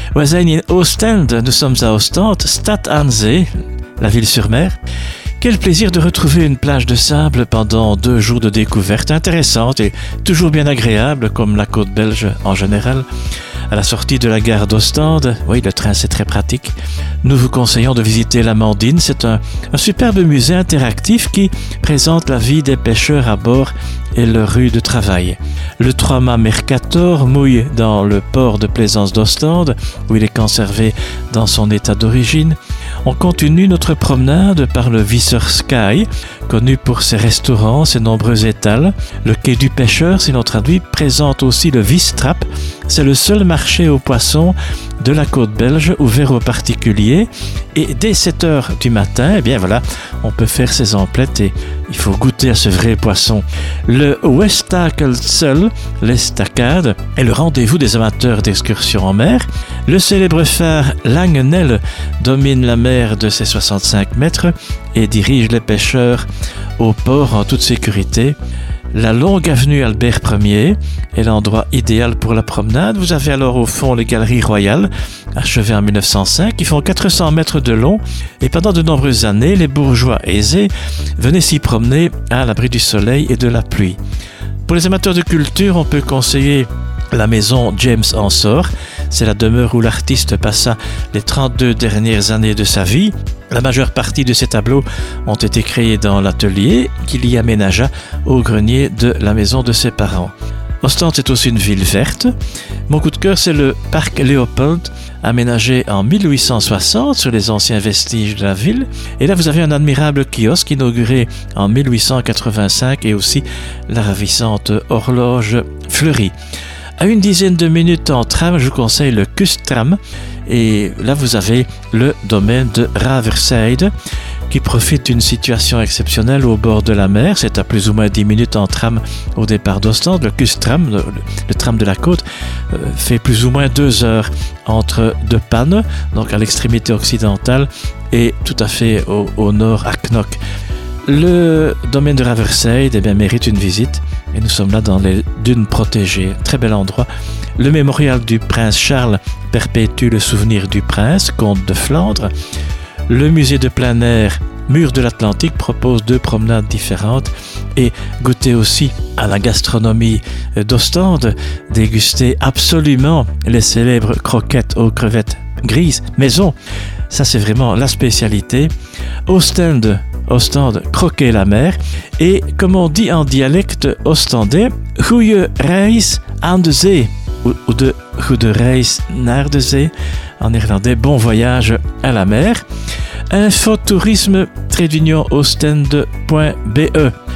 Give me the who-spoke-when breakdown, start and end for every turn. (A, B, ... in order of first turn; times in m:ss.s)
0:00.2-0:03.5 A
0:04.0-0:04.8 A
0:05.4-0:13.1 A
0:13.7-1:06.3 A
1:06.8-1:08.4 A
1:08.9-1:24.0 A
1:24.7-1:42.3 A
1:42.9-1:56.3 A
1:57.0-2:03.9 A
2:04.5-2:20.4 A
2:21.1-2:32.3 A
2:33.1-2:46.6 A
2:47.1-2:48.7 A
2:49.3-3:02.6 A
3:03.3-3:07.1 A